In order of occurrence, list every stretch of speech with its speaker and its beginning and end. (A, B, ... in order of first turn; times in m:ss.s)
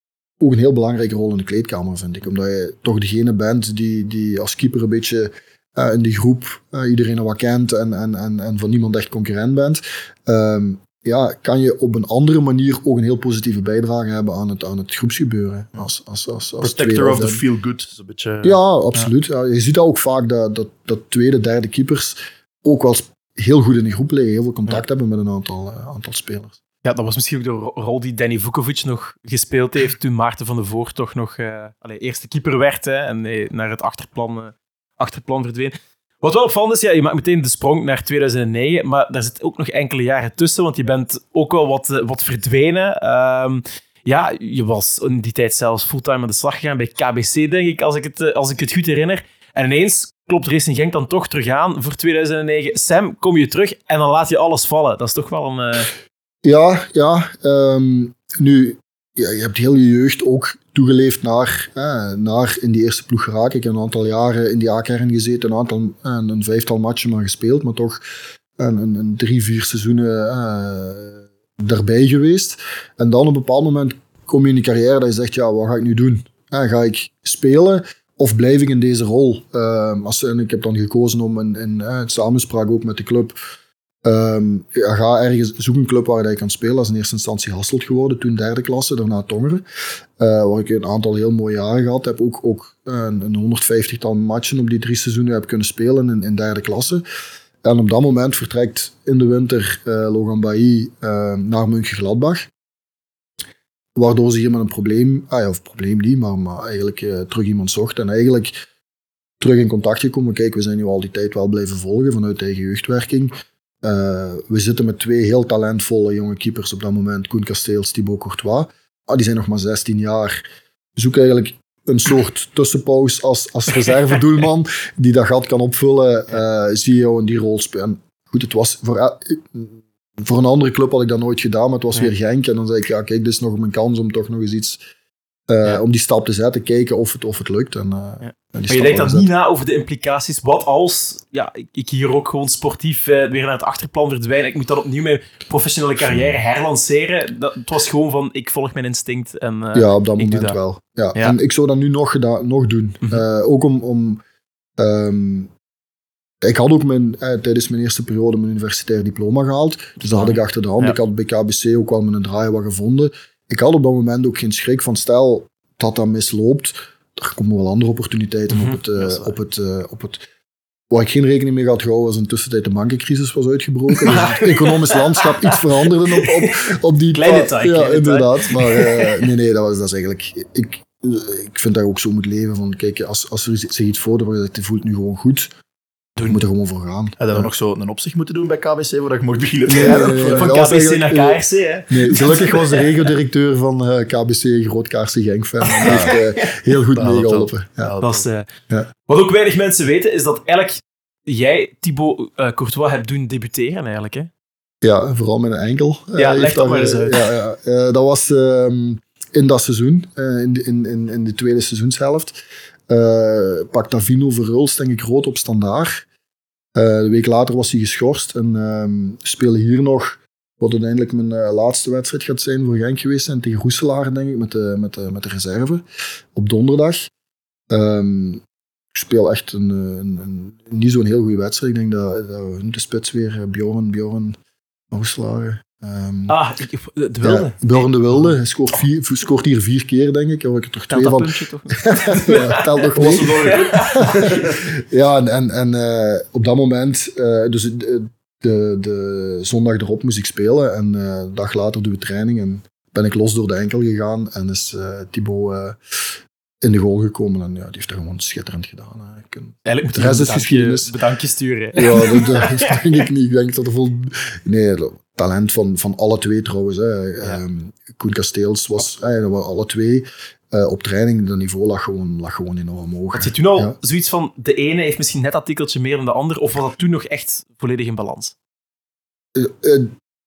0:00.4-0:17.4 A
0:16.6-0:19.1 B
0:18.4-0:26.6 A
0:26.8-0:55.9 C
0:56.4-1:08.0 A
1:08.6-1:23.4 A
1:24.0-1:29.6 A
1:30.2-1:37.0 A
1:37.6-1:42.5 A
1:44.0-1:48.6 A
1:49.4-2:00.4 A
2:01.0-2:14.8 A
2:15.5-2:19.3 A
2:18.7-2:30.6 C
2:29.7-2:34.2 A
2:34.8-2:35.5 A
2:36.4-2:50.2 A
2:48.5-2:48.8 C
2:49.0-2:49.3 B
2:50.9-3:05.5 A
2:54.0-2:55.6 C
2:56.2-2:56.5 C
2:57.1-2:59.2 C
3:06.3-3:07.5 A
3:07.2-3:10.5 B
3:09.7-3:17.9 A
3:09.8-3:13.1 C
3:15.8-3:16.2 C
3:15.8-3:16.1 B
3:16.9-3:18.3 B
3:18.0-3:18.5 C
3:19.1-3:24.3 C
3:24.8-3:36.0 A
3:26.2-3:27.2 C
3:36.8-3:45.8 A
3:46.3-3:47.1 A
3:47.7-3:48.4 A
3:48.9-3:54.4 A
3:54.9-3:56.4 A
3:56.3-3:58.3 C
3:57.2-4:20.9 A
4:00.9-4:04.0 C
4:02.9-4:04.6 B
4:19.6-4:22.7 C
4:21.7-4:33.8 A
4:33.1-4:38.3 C
4:39.4-4:39.9 A